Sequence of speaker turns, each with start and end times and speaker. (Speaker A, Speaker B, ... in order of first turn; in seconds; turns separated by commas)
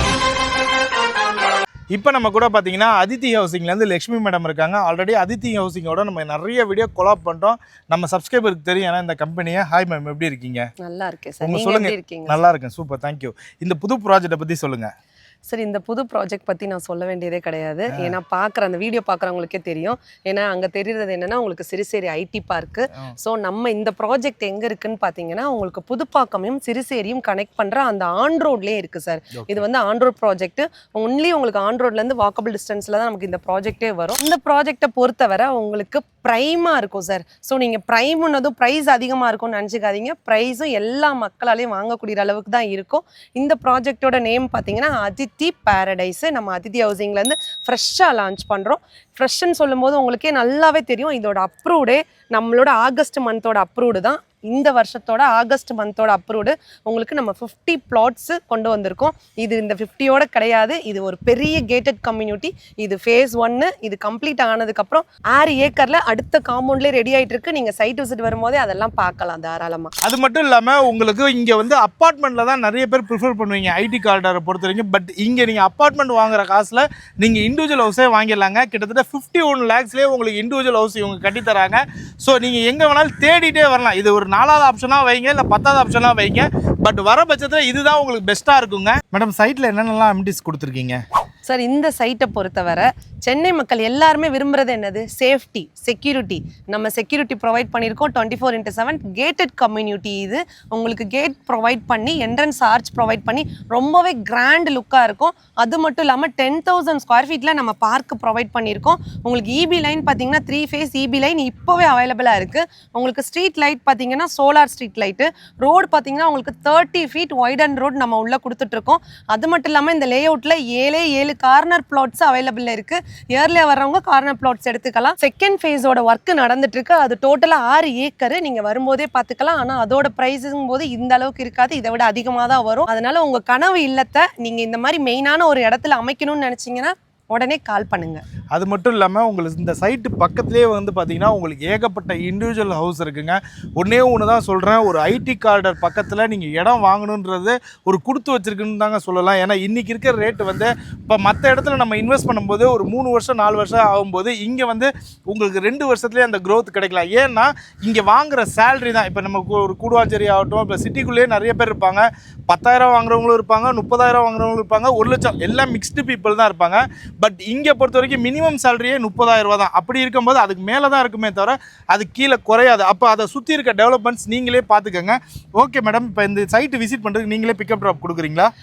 Speaker A: 1.9-10.7, Speaker B: 10.8-12.4, Speaker A: 11.4-14.9, Speaker B: 15.5-69.9, Speaker A: 29.3-29.6, Speaker A: 70.0-91.0, Speaker B: 91.5-138.2, Speaker A: 138.5-178.5